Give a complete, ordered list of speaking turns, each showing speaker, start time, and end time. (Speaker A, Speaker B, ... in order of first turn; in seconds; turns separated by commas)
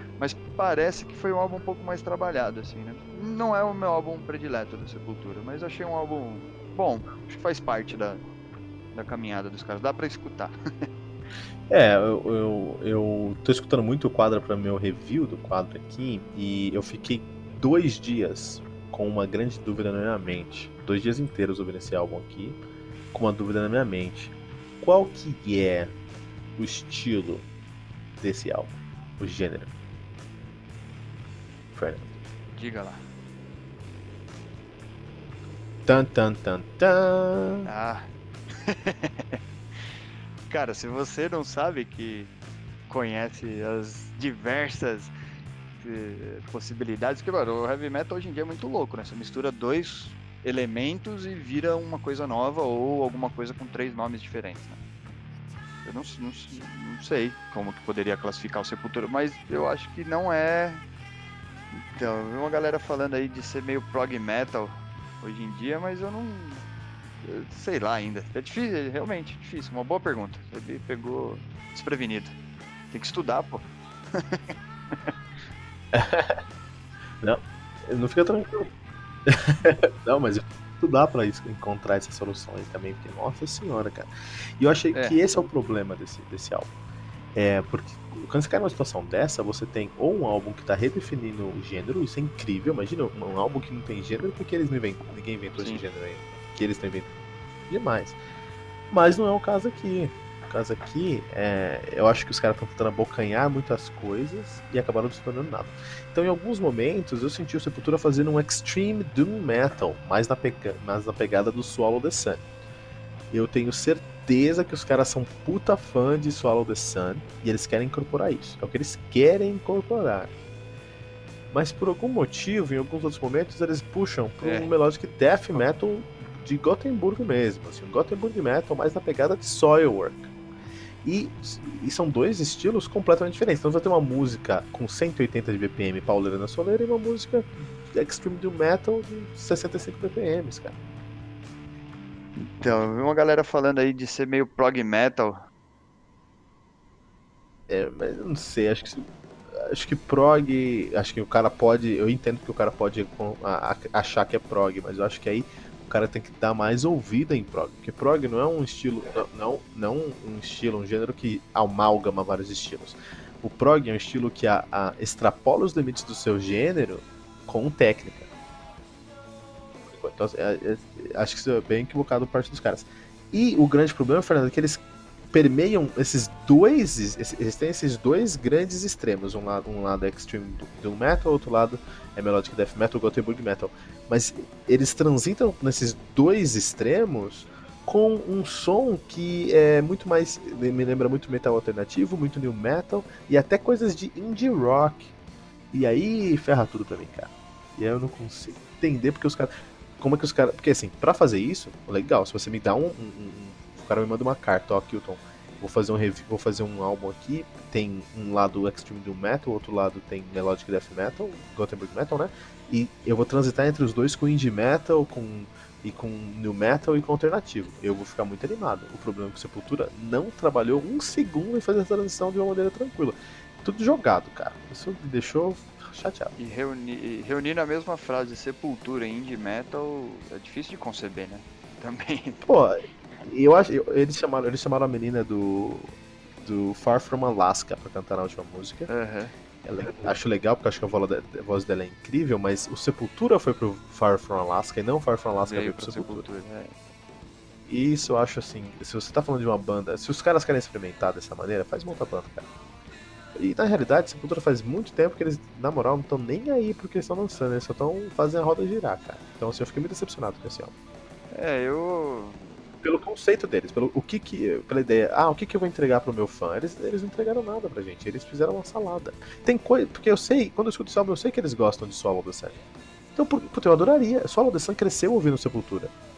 Speaker A: 0.2-8.2, Speaker A: 8.9-10.6, Speaker B: 11.7-22.6, Speaker B: 23.1-25.9, Speaker B: 26.6-27.5, Speaker B: 28.2-29.7, Speaker B: 31.7-32.1, Speaker A: 32.5-33.0, Speaker B: 35.8-37.7, Speaker A: 37.6-39.4, Speaker A: 40.5-42.3, Speaker A: 42.9-45.1, Speaker A: 45.7-54.8, Speaker A: 55.8-60.8, Speaker A: 61.7-66.6, Speaker A: 67.2-72.3, Speaker A: 72.9-75.1, Speaker B: 75.9-76.4, Speaker B: 77.2-78.7, Speaker B: 79.2-86.7, Speaker A: 84.9-85.5, Speaker B: 87.3-97.1, Speaker A: 95.6-95.8, Speaker B: 97.7-98.2, Speaker B: 98.9-112.4, Speaker B: 113.3-120.3, Speaker B: 121.5-130.3, Speaker A: 124.4-124.7, Speaker B: 131.0-140.8, Speaker A: 142.6-145.4, Speaker B: 147.7-168.3, Speaker B: 169.9-174.8, Speaker B: 175.3-195.1, Speaker B: 195.7-226.3, Speaker A: 226.4-232.4, Speaker B: 232.4-238.9, Speaker A: 238.9-239.3, Speaker B: 239.6-246.2, Speaker A: 245.4-246.7, Speaker B: 247.7-252.5, Speaker B: 253.3-260.7, Speaker A: 261.3-262.4, Speaker B: 262.8-272.6, Speaker B: 273.1-275.9